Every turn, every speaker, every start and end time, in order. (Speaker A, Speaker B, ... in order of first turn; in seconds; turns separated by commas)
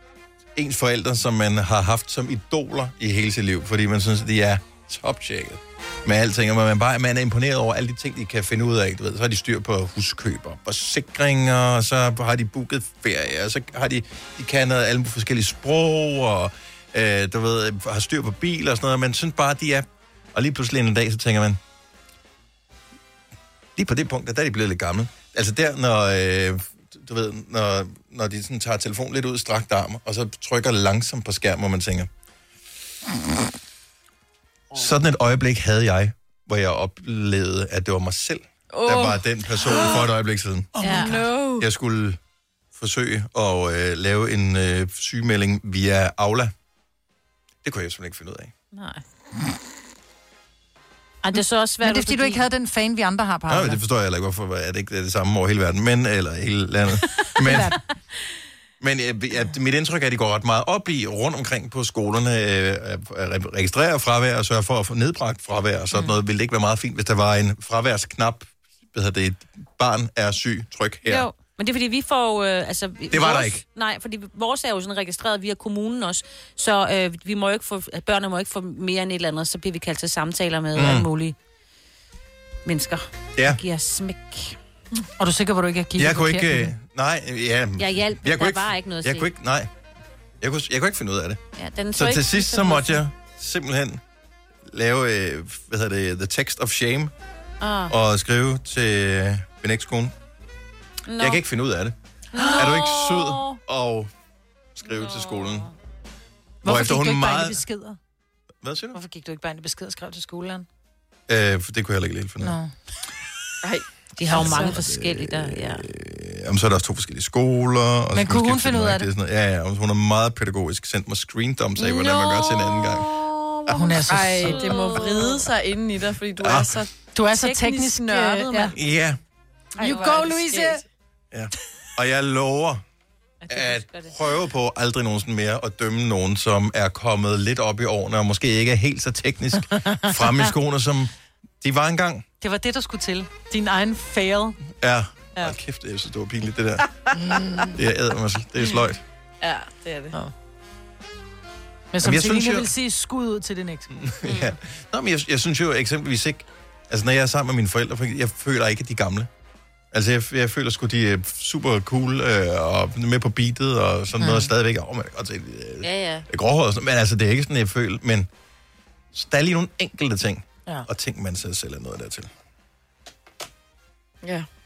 Speaker A: 0.6-21.6, Speaker A: 23.8-32.1, Speaker A: 34.7-42.2, Speaker B: 38.7-40.0, Speaker C: 40.8-41.2, Speaker B: 40.9-41.6, Speaker D: 41.0-41.2, Speaker A: 42.7-46.5, Speaker A: 47.6-48.5, Speaker C: 48.7-49.0, Speaker C: 51.2-52.4, Speaker D: 51.8-53.8, Speaker A: 53.5-57.7, Speaker D: 57.4-57.8, Speaker A: 58.8-71.3, Speaker C: 71.1-81.3, Speaker A: 73.1-73.6, Speaker A: 80.7-81.1, Speaker C: 82.6-84.6, Speaker D: 85.2-86.7, Speaker A: 86.0-89.7, Speaker C: 87.8-89.3, Speaker A: 90.4-91.4, Speaker C: 91.6-93.0, Speaker A: 91.9-94.0, Speaker A: 94.7-97.1, Speaker C: 97.6-97.9, Speaker A: 97.9-100.1, Speaker C: 101.1-101.4, Speaker A: 101.2-101.9, Speaker D: 102.3-102.7, Speaker C: 102.3-103.6, Speaker A: 102.5-104.1, Speaker A: 104.8-105.7, Speaker C: 104.8-105.7, Speaker A: 106.6-107.6, Speaker D: 106.6-108.0, Speaker A: 108.6-109.0, Speaker D: 108.9-110.7, Speaker A: 111.3-112.5, Speaker D: 112.4-112.7, Speaker C: 114.2-115.9, Speaker A: 114.3-124.0, Speaker D: 114.3-114.7, Speaker D: 118.1-119.1, Speaker C: 121.8-123.8, Speaker D: 123.7-125.0, Speaker B: 124.1-128.7, Speaker C: 124.3-125.5, Speaker A: 126.4-126.8, Speaker D: 127.1-128.7, Speaker A: 128.7-129.2, Speaker D: 129.8-130.8, Speaker C: 129.8-130.5, Speaker B: 129.8-130.8, Speaker A: 131.3-132.8, Speaker C: 133.4-134.1, Speaker A: 133.5-142.2, Speaker D: 142.4-144.6, Speaker A: 144.8-146.9, Speaker D: 147.1-147.8, Speaker A: 147.7-149.0, Speaker B: 149.4-150.1, Speaker D: 151.9-153.9, Speaker A: 152.0-152.7, Speaker A: 153.9-159.3, Speaker C: 154.2-154.5, Speaker A: 159.9-168.3, Speaker D: 164.2-164.5, Speaker C: 165.8-166.2, Speaker A: 169.1-172.3, Speaker B: 174.2-174.5